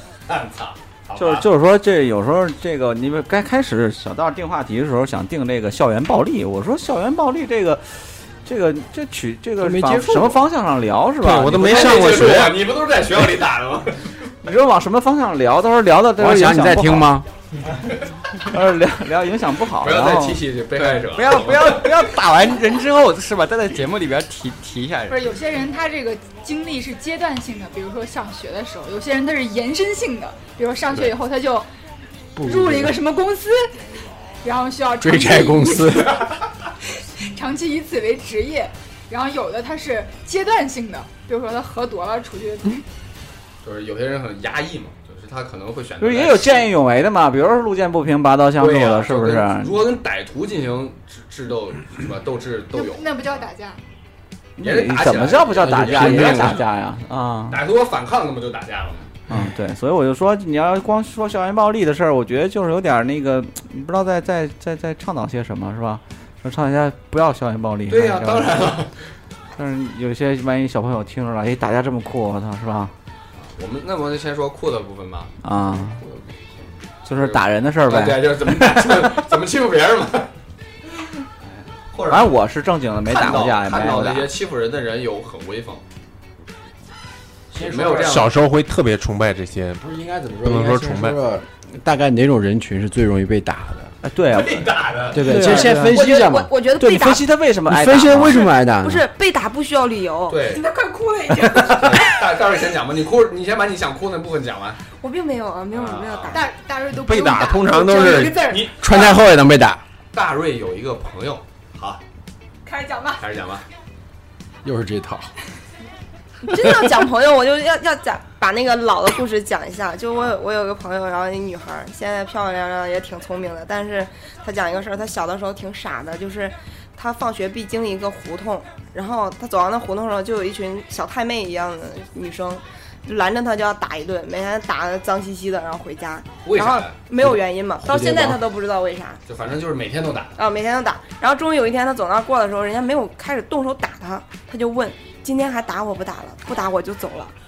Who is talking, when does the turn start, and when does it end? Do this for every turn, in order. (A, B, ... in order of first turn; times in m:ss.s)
0:00.3-0:01.5 A
0:01.2-0:12.4 B
0:09.6-0:10.4 C
0:11.2-0:12.7 D
0:11.6-0:14.1 A
0:14.4-0:17.2 B
0:16.2-0:17.3 C
0:18.5-0:20.4 B
0:19.8-0:22.0 A
0:20.8-0:25.3 E
0:25.1-0:31.7 F
0:32.4-0:33.0 C
0:32.4-0:33.7 F
0:34.4-0:36.2 F
0:35.0-0:36.2 C
0:37.0-0:42.8 F
0:43.6-0:46.7 A
0:46.0-0:49.9 B
0:48.6-0:53.0 A
0:52.7-0:53.8 F
0:54.6-0:57.6 B
0:54.6-0:56.7 A
0:55.8-0:56.2 C
0:57.5-0:59.1 A
0:59.3-1:08.8 B
1:07.9-1:08.9 A
1:09.6-1:12.9 B
1:13.4-1:20.3 A
1:15.4-1:16.0 B
1:17.1-1:19.3 B
1:21.6-1:22.4 A
1:22.1-1:24.3 B
1:23.0-1:25.8 A
1:27.5-1:28.3 A
1:27.5-1:28.3 C
1:28.0-1:29.8 D
1:29.8-1:33.9 C
1:30.4-1:31.2 D
1:34.0-1:36.0 B
1:34.3-1:35.4 A
1:35.1-1:36.5 C
1:35.3-1:37.3 G
1:36.8-1:38.5 B
1:37.7-1:39.1 C
1:38.1-1:40.5 G
1:40.3-1:40.6 A
1:40.5-1:42.2 F
1:41.7-1:44.8 A
1:45.0-1:46.4 G
1:45.7-1:46.4 A
1:46.3-1:48.7 F
1:46.9-1:48.5 D
1:48.3-1:49.2 A
1:48.8-1:49.8 C
1:50.1-1:52.0 A
1:52.6-1:53.2 F
1:53.2-1:53.6 A
1:54.6-1:55.3 C
1:56.4-2:19.2 G
2:16.4-2:17.0 A
2:17.2-2:18.4 C
2:19.3-2:20.4 A
2:20.4-2:27.3 G